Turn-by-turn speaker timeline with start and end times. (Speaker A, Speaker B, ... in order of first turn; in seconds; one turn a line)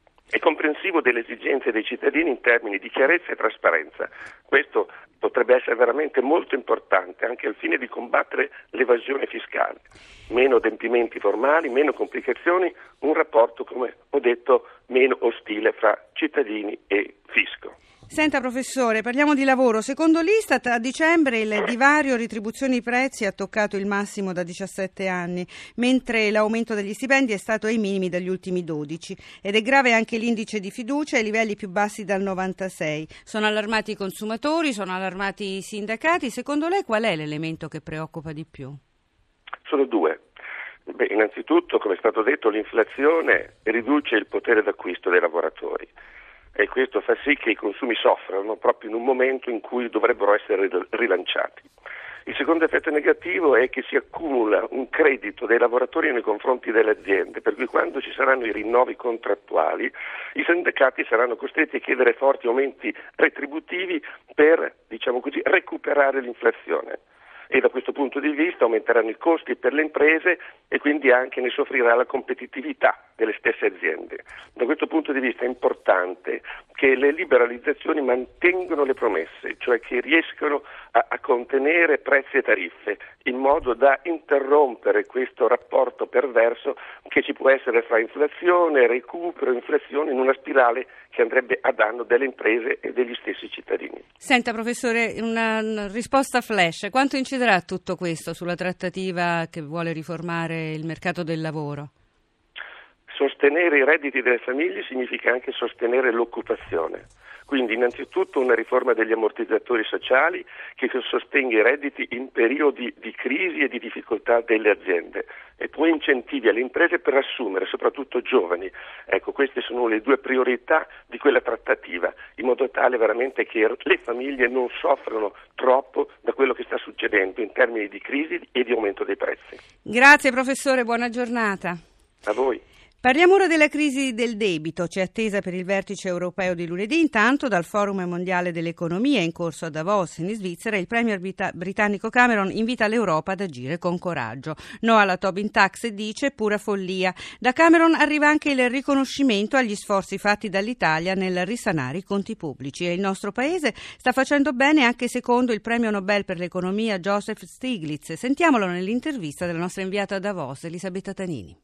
Speaker A: 0.3-17.7
Speaker B: 18.1-38.8
Speaker A: 39.6-40.2
Speaker A: 40.9-45.9
Speaker A: 46.5-51.7
Speaker A: 52.2-67.0
Speaker A: 67.5-94.0
Speaker B: 94.2-101.9
Speaker A: 103.1-129.6
Speaker B: 129.8-131.8
Speaker A: 132.2-132.6
Speaker B: 133.0-161.6